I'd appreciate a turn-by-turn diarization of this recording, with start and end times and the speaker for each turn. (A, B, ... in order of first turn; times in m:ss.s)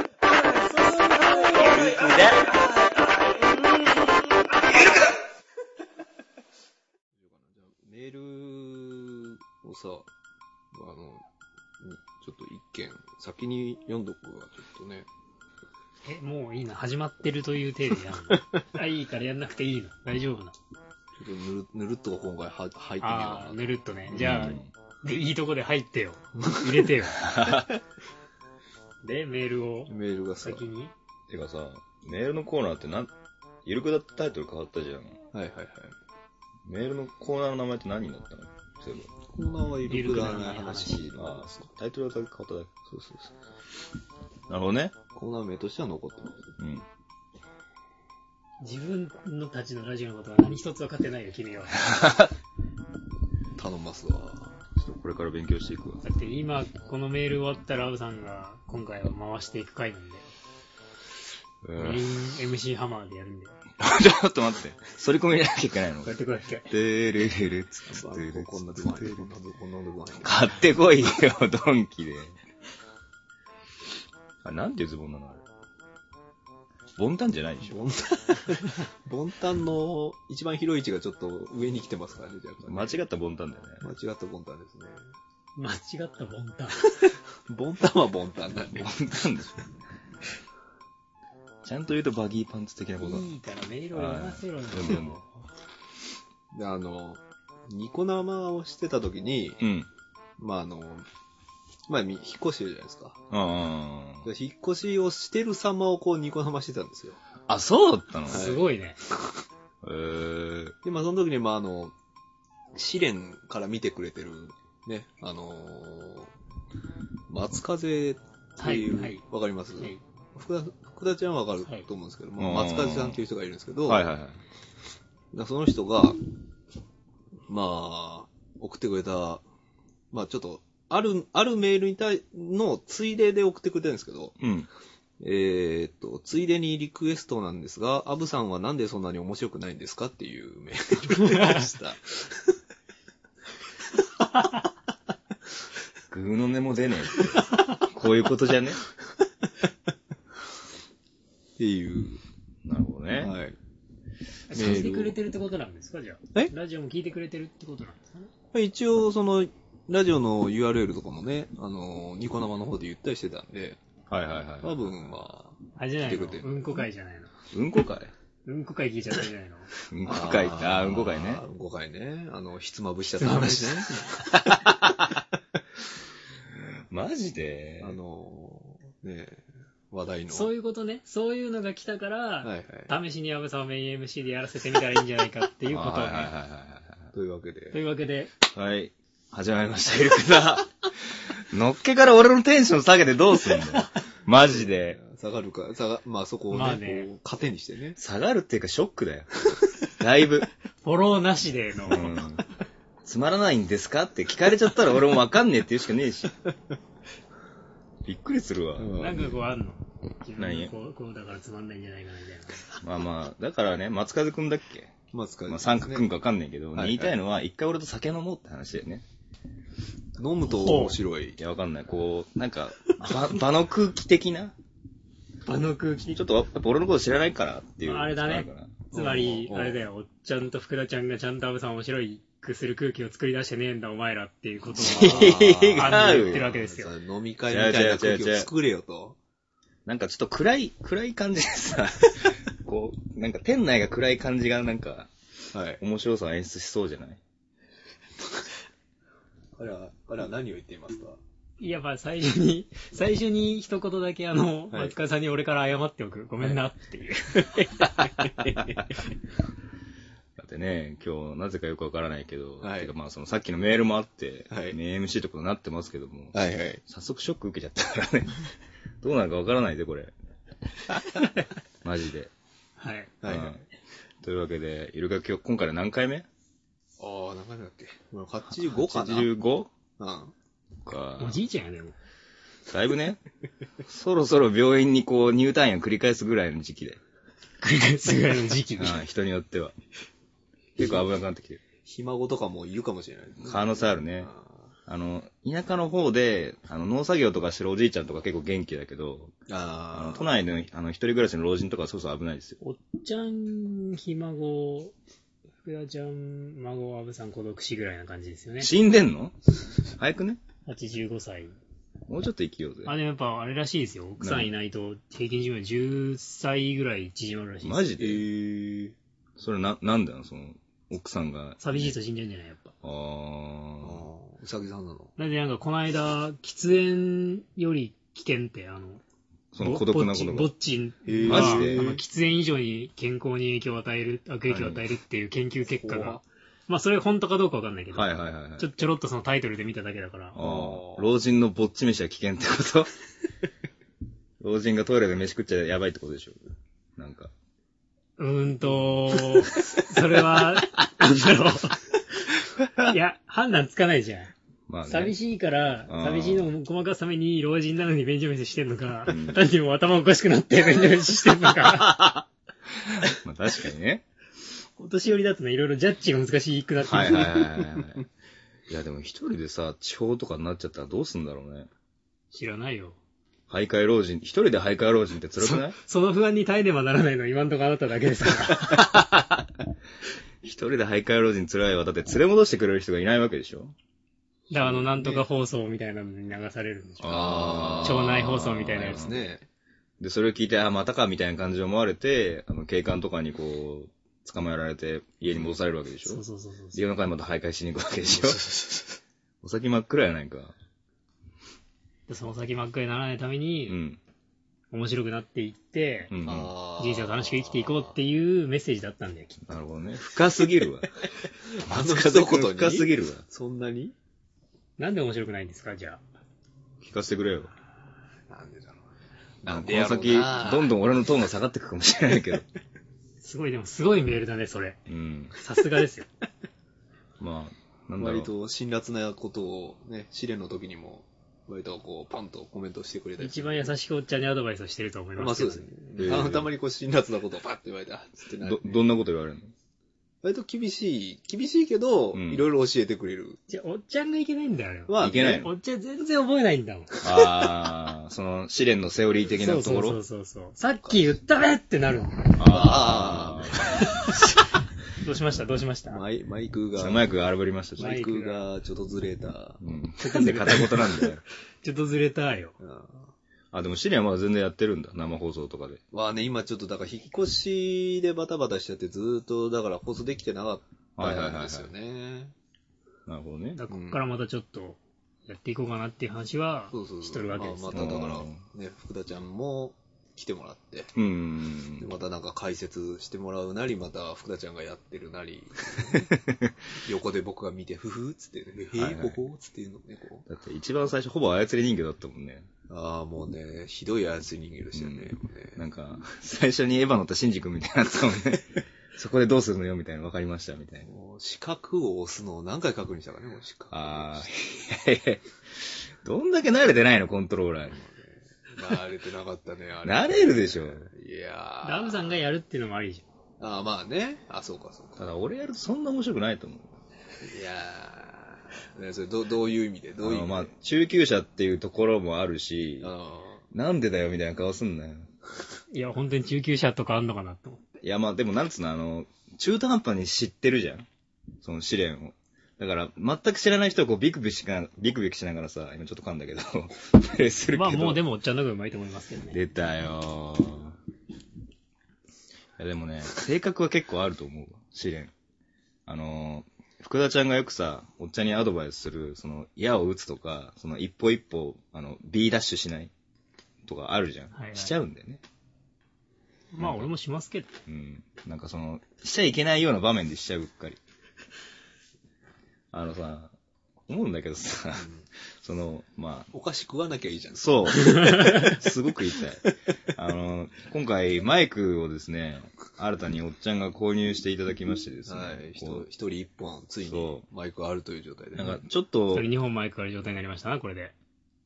0:00.8-0:01.9 A
0:01.6-0:02.3 B
0:07.2-0:10.1 B
0:10.7-0:11.2 B
0:11.8-0:15.1 B
0:16.1-0:20.6 A
0:21.2-0:24.6 B
0:23.0-0:27.3 A
0:24.1-0:24.7 C
0:26.4-0:26.9 B
0:27.2-0:27.7 C
0:29.0-0:30.9 A
0:29.9-0:30.7 B
0:31.3-0:33.1 C
0:33.6-0:35.2 C
0:35.3-0:36.0 B
0:36.7-0:39.1 C
0:39.3-0:41.6 B
0:39.9-0:41.1 A
0:41.1-0:42.7 C
0:42.9-0:43.3 B
0:44.5-0:45.0 C
0:45.2-0:46.4 B
0:46.6-0:46.9 C
0:48.6-0:51.8 A
0:51.8-0:52.3 C
0:53.6-0:54.6 B
0:54.8-0:56.0 C
0:56.0-1:00.2 A
1:01.6-1:02.1 C
1:01.8-1:03.6 A
1:03.8-1:09.2 C
1:06.0-1:06.7 A
1:07.9-1:10.5 B
1:10.2-1:12.4 C
1:14.4-1:15.4 C
1:17.0-1:17.8 C
1:17.6-1:23.0 B
1:22.6-1:23.9 C
1:23.8-1:25.0 B
1:25.6-1:26.8 A
1:27.0-1:28.9 B
1:28.8-1:29.6 C
1:31.6-1:33.3 C
1:33.0-1:35.2 A
1:33.9-1:35.2 C
1:36.5-1:39.6 B
1:39.6-1:39.9 C
1:40.4-1:41.1 B
1:41.9-1:43.2 B
1:43.3-1:44.3 C
1:44.2-1:47.2 B
1:47.5-1:48.5 C
1:48.3-1:48.7 B
1:48.3-1:49.0 A
1:49.8-1:50.8 C
1:50.8-1:51.9 B
1:52.7-1:56.3 B
1:57.3-2:04.0 B
1:58.6-1:59.2 A
2:02.4-2:03.2 C
2:03.9-2:04.4 C
2:05.3-2:06.2 B
2:07.5-2:09.4 B
2:10.1-2:14.4 B
2:14.4-2:14.7 C
2:15.2-2:22.5 B
2:21.1-2:21.7 A
2:26.1-2:28.8 C
2:31.6-2:32.2 B
2:32.6-2:33.4 C
2:33.2-2:33.6 B
2:34.5-2:38.3 A
2:34.5-2:35.2 B
2:38.5-2:43.8 B
2:44.1-2:44.7 C
2:44.6-2:46.7 B
2:45.8-2:47.3 A
2:47.5-2:48.1 C
2:48.4-2:49.7 A
2:49.9-2:51.4 C
2:50.0-2:55.1 B
2:53.2-2:54.1 A
2:56.6-2:58.0 C
2:57.8-3:00.5 B
3:00.3-3:06.3 A
3:02.4-3:02.9 B
3:05.7-3:07.1 C
3:07.1-3:07.8 B
3:07.7-3:08.3 A
3:08.5-3:15.0 C
3:14.3-3:18.0 B
3:16.5-3:17.1 A
3:18.0-3:19.3 C
3:20.0-3:20.5 C
3:20.8-3:22.2 A
3:21.9-3:22.4 C
3:23.0-3:26.4 C
3:28.0-3:29.0 C
3:28.8-3:29.4 B
3:29.0-3:32.7 A
3:30.4-3:30.7 C
3:32.8-3:35.0 C
3:35.1-3:36.1 B
3:35.5-3:39.0 C
3:36.8-3:37.2 B
3:40.2-3:41.4 B
3:40.4-3:41.0 A
3:41.4-3:44.5 C
3:45.5-3:46.2 A
3:46.1-3:48.8 C
3:47.8-3:57.0 A
3:48.9-3:49.8 B
3:54.8-3:56.5 C
3:54.8-3:59.2 B
3:57.5-3:58.5 C
3:59.9-4:05.1 C
4:05.5-4:05.8 B
4:05.8-4:07.2 C
4:09.6-4:11.2 B
4:11.6-4:17.7 A
4:17.4-4:18.9 B
4:20.4-4:28.5 C
4:22.6-4:22.9 B
4:24.5-4:24.8 B
4:26.3-4:26.8 B
4:29.0-4:30.1 C
4:31.8-4:32.3 C
4:32.8-4:33.1 A
4:33.2-4:33.6 B
4:33.3-4:33.6 C
4:34.2-4:36.3 C
4:37.0-4:39.3 B
4:38.6-4:39.7 C
4:40.0-4:40.3 B
4:40.8-4:41.4 C
4:41.2-4:42.0 A
4:42.7-4:43.2 C
4:43.9-4:47.0 C
4:47.6-4:49.0 A
4:48.8-4:49.8 C
4:50.8-4:51.6 C
4:51.8-4:54.5 B
4:53.4-4:54.3 C
4:54.9-4:59.3 C
4:59.5-5:00.3 B
4:59.9-5:02.6 C
5:02.6-5:04.9 A
5:05.6-5:08.7 A
5:08.6-5:09.4 C
5:09.9-5:10.4 C
5:10.7-5:11.6 A
5:12.1-5:13.0 C
5:12.9-5:17.9 A
5:14.2-5:14.5 C
5:17.6-5:18.2 C
5:18.0-5:19.0 B
5:19.4-5:21.9 C
5:21.6-5:22.7 A
5:22.8-5:24.1 C
5:23.8-5:25.1 B
5:25.2-5:29.0 A
5:29.5-5:30.5 C
5:29.6-5:40.4 A
5:31.1-5:32.0 B
5:31.3-5:31.9 C
5:34.5-5:34.8 C
5:35.7-5:36.2 B
5:37.9-5:38.9 C
5:40.4-5:42.9 C
5:40.4-5:41.1 B
5:44.4-5:46.4 C
5:47.0-5:47.3 C
5:48.2-5:51.8 A
5:52.8-5:54.3 A
5:54.7-5:55.2 C
5:54.9-6:02.1 A
5:55.9-5:56.5 C
5:59.1-5:59.4 C
6:02.0-6:02.2 C
6:02.7-6:04.0 C
6:04.8-6:07.4 A
6:06.9-6:08.1 C
6:08.7-6:11.7 C
6:12.3-6:13.0 A
6:13.5-6:15.8 C
6:15.4-6:18.8 A
6:18.8-6:19.4 C
6:20.4-6:23.8 C
6:24.5-6:29.1 A
6:24.6-6:25.2 B
6:27.0-6:29.2 C
6:27.0-6:28.2 B
6:28.8-6:29.4 B
6:30.0-6:36.2 C
6:35.3-6:35.6 B
6:36.1-6:36.8 A
6:36.7-6:38.5 C
6:38.1-6:39.0 B
6:39.4-6:40.6 C
6:42.1-6:43.8 A
6:43.7-6:44.0 C
6:44.7-6:46.1 A
6:46.1-6:46.5 C
6:46.2-6:48.0 B
6:46.8-6:49.6 A
6:49.5-6:50.9 C
6:51.5-6:54.0 B
6:51.6-6:53.2 C
6:54.8-6:56.0 A
6:56.8-6:57.5 C
6:58.3-6:58.8 B
6:59.4-7:00.8 B
6:59.5-7:02.5 C
7:03.2-7:04.8 A
7:04.9-7:05.3 C
7:05.4-7:06.1 A
7:07.2-7:08.3 C
7:08.0-7:13.7 B
7:13.2-7:15.7 A
7:15.2-7:18.9 B
7:16.0-7:16.5 C
7:18.4-7:19.5 C
7:20.2-7:23.4 B
7:22.1-7:22.5 C
7:23.5-7:27.4 A
7:24.9-7:25.5 B
7:25.0-7:25.5 C
7:27.0-7:30.0 C
7:29.4-7:32.4 A
7:32.4-7:33.8 C
7:32.4-7:33.6 B
7:33.7-7:36.0 A
7:35.9-7:37.1 B
7:36.8-7:38.0 C
7:37.8-7:38.5 A
7:37.8-7:39.6 B
7:39.6-7:41.2 C
7:40.0-7:41.1 A
7:41.6-7:42.6 A
7:42.6-7:43.1 B
7:43.5-7:45.8 C
7:45.9-7:52.3 B
7:51.0-7:51.7 C
7:53.1-7:53.6 C
7:53.6-7:58.1 A
7:53.7-7:54.0 B
7:56.7-8:00.9 B
7:57.7-7:58.4 C
8:01.0-8:01.9 C
8:01.8-8:06.1 B
8:06.0-8:06.5 C
8:06.8-8:10.3 B
8:08.8-8:09.2 C
8:10.3-8:12.5 C
8:12.7-8:15.6 B
8:14.7-8:20.9 C
8:20.8-8:24.3 B
8:23.7-8:27.8 C
8:27.7-8:32.2 B
8:29.8-8:30.9 C
8:31.6-8:33.0 A
8:33.4-8:35.0 B
8:35.0-8:36.7 C
8:37.2-8:40.5 B
8:40.0-8:42.9 C
8:42.8-8:43.4 B
8:43.5-8:45.1 C
8:45.7-8:47.8 A
8:47.8-8:50.9 C
8:51.4-8:58.0 C
8:57.5-8:59.4 A
8:59.3-9:00.8 C
9:02.6-9:05.1 C
9:05.9-9:12.9 C
9:13.6-9:15.2 C
9:14.3-9:14.8 A
9:16.5-9:17.6 A
9:16.6-9:16.9 C
9:17.7-9:20.8 C
9:22.7-9:23.3 C
9:23.9-9:26.3 C
9:24.8-9:25.0 B
9:26.3-9:28.6 B
9:27.4-9:35.9 C
9:35.1-9:38.6 B
9:36.8-9:37.2 C
9:38.4-9:39.3 C
9:39.1-9:40.9 A